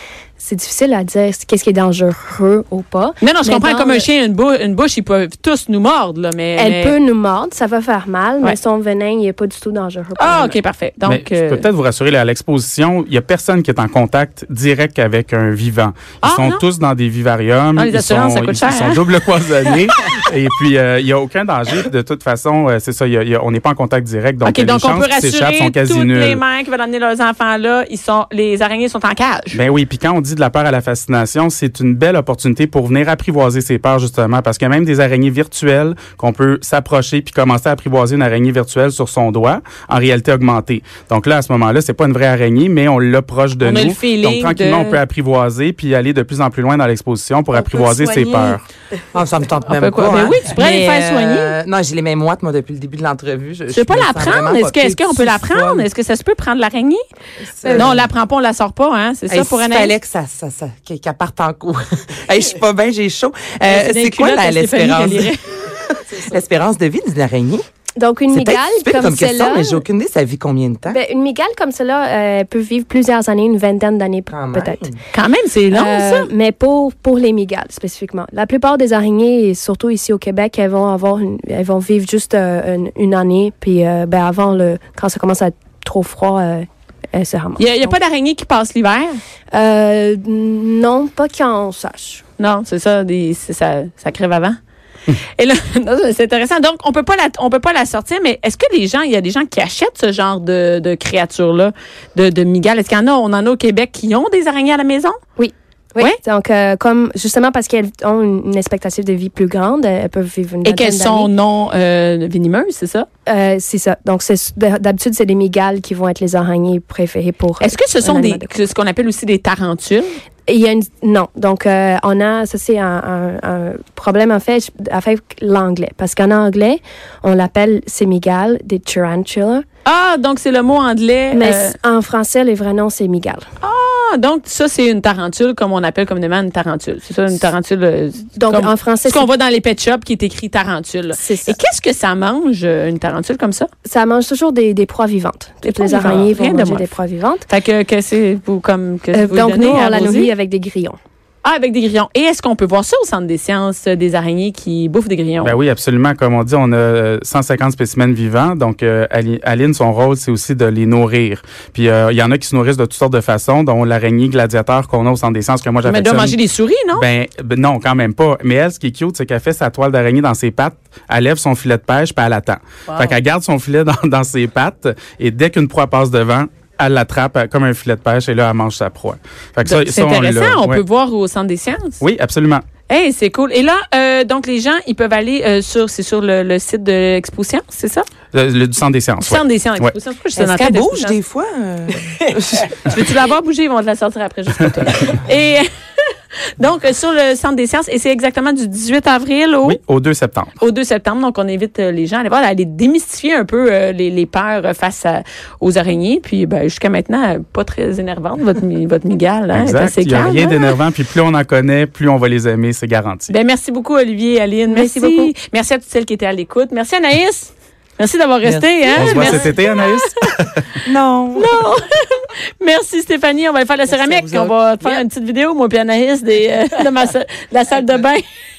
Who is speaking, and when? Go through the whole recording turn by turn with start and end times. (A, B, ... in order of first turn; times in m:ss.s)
0:00.4-0:04.0 A
0:03.2-0:07.0 B
0:06.6-0:10.6 A
0:10.2-0:11.6 B
0:11.0-0:26.4 C
0:16.2-0:16.6 B
0:17.8-0:19.0 B
0:24.4-0:29.6 B
0:29.5-0:48.6 C
0:43.6-0:45.0 B
0:47.6-0:48.5 B
0:49.1-0:55.9 D
0:49.7-0:51.5 B
0:53.7-0:57.0 B
0:57.6-0:58.1 D
0:57.7-0:59.9 B
0:59.3-1:07.6 D
1:03.6-1:05.4 B
1:08.0-1:09.8 A
1:08.3-1:11.0 D
1:10.9-1:14.9 A
1:14.3-1:15.0 D
1:15.1-1:16.3 B
1:15.7-1:27.9 A
1:27.6-1:29.2 B
1:29.5-1:32.2 A
1:32.4-1:34.6 B
1:35.1-1:45.2 B
1:45.4-1:51.3 A
1:50.6-1:53.1 B
1:53.3-1:58.5 A
1:57.6-2:00.1 B
2:00.5-2:09.6 A
2:09.8-2:11.7 B
2:11.3-2:13.4 A
2:13.6-2:23.7 B
2:18.4-2:19.3 A
2:21.1-2:21.6 A
2:23.8-2:27.5 A
2:25.6-2:26.9 B
2:27.5-2:30.3 B
2:29.1-2:31.0 A
2:31.4-2:35.6 B
2:35.4-2:46.4 C
2:45.8-2:47.0 B
2:46.9-3:00.8 C
2:52.9-2:53.1 B
2:59.6-3:02.0 B
3:02.0-3:02.6 C
3:02.9-3:08.1 B
3:08.3-3:09.9 C
3:09.2-3:11.2 B
3:10.3-3:12.8 D
3:12.8-3:15.7 B
3:16.6-3:19.8 B
3:19.6-3:20.5 C
3:20.6-3:30.8 B
3:29.5-3:33.3 C
3:33.3-3:40.0 B
3:34.7-3:35.3 A
3:38.4-3:39.4 D
3:38.9-3:40.6 C
3:40.8-3:41.5 D
3:41.4-3:48.2 B
3:43.9-3:45.0 D